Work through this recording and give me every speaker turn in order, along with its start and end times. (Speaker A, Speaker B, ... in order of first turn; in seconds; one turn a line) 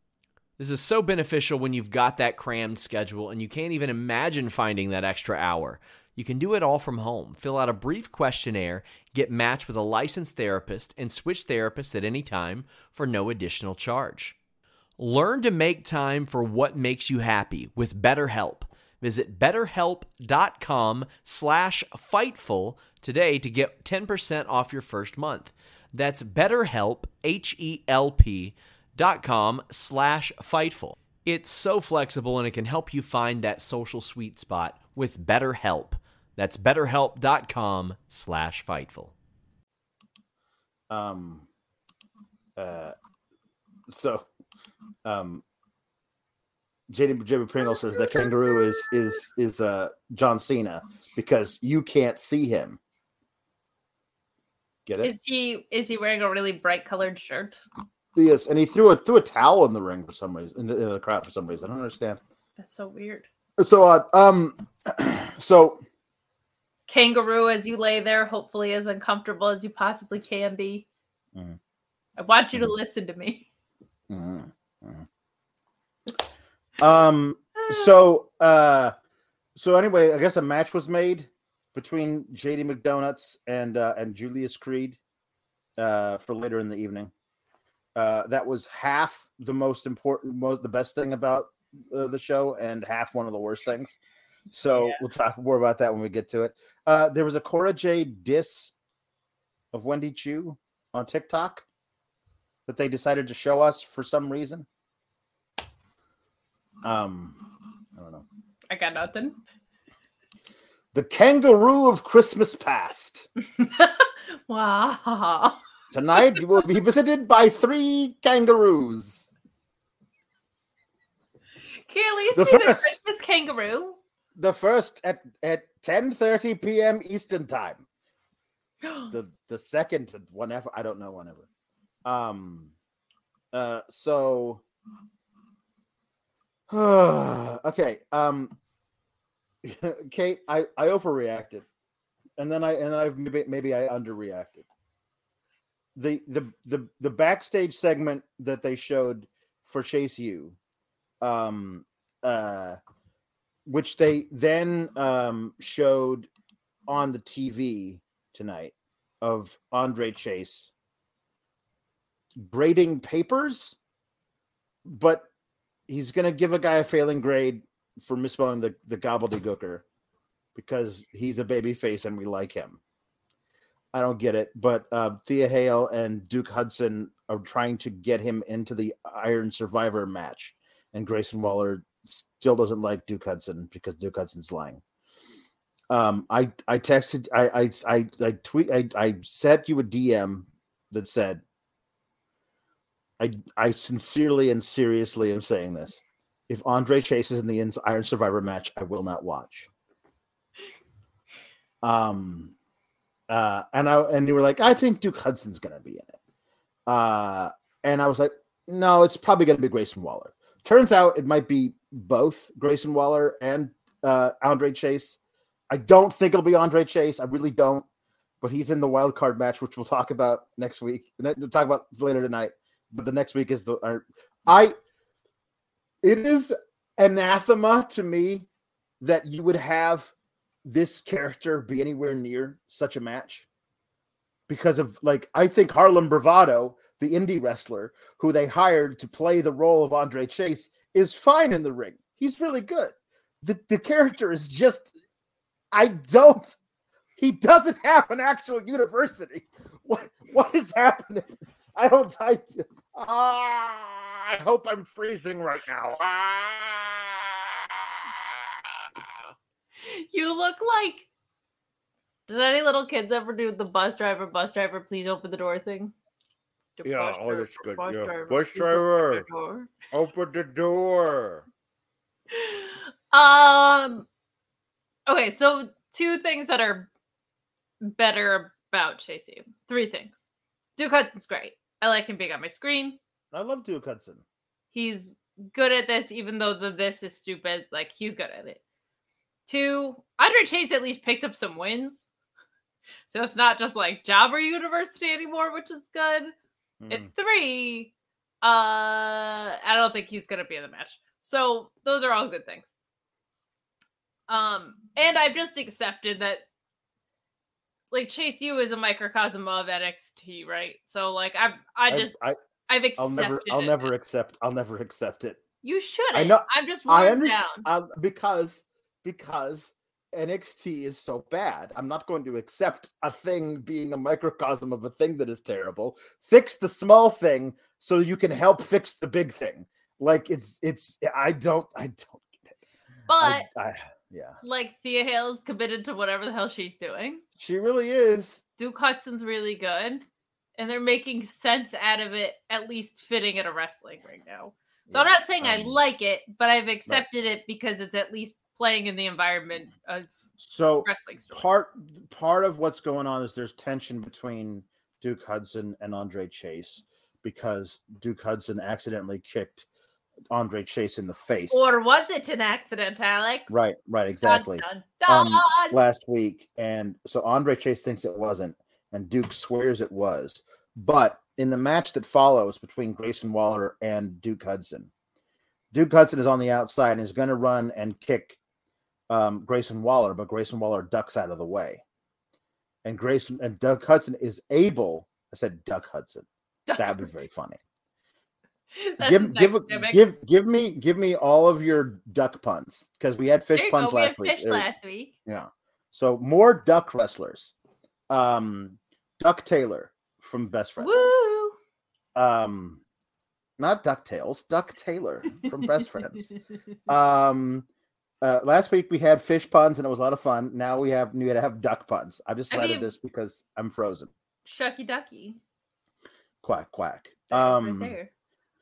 Speaker A: 0.6-14.4
Speaker A: 15.0-39.1
Speaker B: 40.9-41.5
Speaker B: 42.6-43.0
Speaker B: 43.9-44.3
Speaker B: 45.0-45.4
Speaker B: 46.9-52.8
Speaker B: 54.9-55.1
Speaker C: 55.0-57.6
Speaker B: 58.1-62.2
Speaker C: 62.6-63.3
Speaker B: 63.6-65.8
Speaker C: 66.9-70.8
Speaker C: 72.2-73.5
Speaker B: 74.1-75.1
Speaker B: 76.8-78.9
Speaker C: 77.6-77.9
Speaker B: 79.6-85.0
Speaker B: 85.8-87.1
Speaker B: 88.0-94.0
Speaker B: 94.5-98.7
Speaker B: 99.7-101.7
Speaker B: 102.7-104.7
Speaker B: 106.8-107.4
Speaker B: 108.0-108.2
Speaker C: 108.7-109.4
Speaker B: 110.9-113.3
Speaker C: 113.6-115.6
Speaker B: 115.9-119.3
Speaker C: 116.1-116.4
Speaker C: 121.9-124.0
Speaker B: 122.3-123.0
Speaker B: 124.3-127.8
Speaker C: 128.8-129.1
Speaker B: 129.1-131.5
Speaker B: 132.1-132.7
Speaker B: 133.5-134.6
Speaker B: 136.7-138.6
Speaker B: 139.6-141.7
Speaker B: 142.4-144.7
Speaker B: 145.9-150.6
Speaker B: 151.2-152.8
Speaker B: 153.7-156.3
Speaker B: 156.9-160.7
Speaker B: 162.4-163.8
Speaker B: 164.8-165.3
Speaker B: 165.9-169.8
Speaker B: 170.6-172.8
Speaker B: 173.9-184.8
Speaker B: 185.9-191.4
Speaker B: 193.2-199.7
Speaker B: 201.8-202.5
Speaker B: 203.3-206.2
Speaker B: 206.9-215.2
Speaker B: 215.7-217.8
Speaker B: 218.4-224.8
Speaker B: 226.0-228.5
Speaker B: 229.0-230.1
Speaker B: 230.6-233.5
Speaker B: 234.5-244.9
Speaker B: 245.7-246.6
Speaker B: 247.2-259.2
Speaker C: 259.8-261.1
Speaker C: 262.3-265.9
Speaker C: 266.8-269.8
Speaker B: 266.8-269.3
Speaker B: 269.9-271.5
Speaker C: 272.3-274.1
Speaker C: 275.1-276.9
Speaker C: 277.8-280.3
Speaker C: 280.8-283.0
Speaker B: 283.3-284.2
Speaker C: 284.7-288.6
Speaker C: 289.5-292.1
Speaker C: 293.1-296.3
Speaker B: 296.8-297.1
Speaker C: 296.9-302.7
Speaker C: 304.3-306.4
Speaker C: 307.9-312.1
Speaker B: 311.9-312.4
Speaker C: 312.7-313.9
Speaker B: 313.0-315.4
Speaker C: 315.6-317.7
Speaker B: 316.1-332.6
Speaker C: 333.1-333.5
Speaker B: 333.2-334.4
Speaker C: 334.4-337.2
Speaker B: 337.4-338.4
Speaker C: 338.6-340.1
Speaker C: 340.6-350.1
Speaker B: 344.9-345.8
Speaker B: 350.4-359.7
Speaker C: 350.9-351.6
Speaker B: 360.3-361.7
Speaker C: 361.5-363.6
Speaker B: 363.5-374.9
Speaker C: 364.2-365.8
Speaker B: 375.7-378.4
Speaker B: 379.1-381.8
Speaker B: 382.9-386.3
Speaker C: 386.7-387.2
Speaker B: 386.8-387.6
Speaker C: 388.8-390.0
Speaker B: 389.0-394.7
Speaker C: 393.6-395.1
Speaker B: 395.3-397.5
Speaker B: 398.1-401.1
Speaker C: 400.8-401.6
Speaker B: 402.1-402.8
Speaker B: 403.6-406.3
Speaker B: 406.9-407.7
Speaker B: 408.2-414.1
Speaker C: 412.5-412.9
Speaker C: 414.4-415.4
Speaker B: 416.4-417.9
Speaker C: 417.3-418.1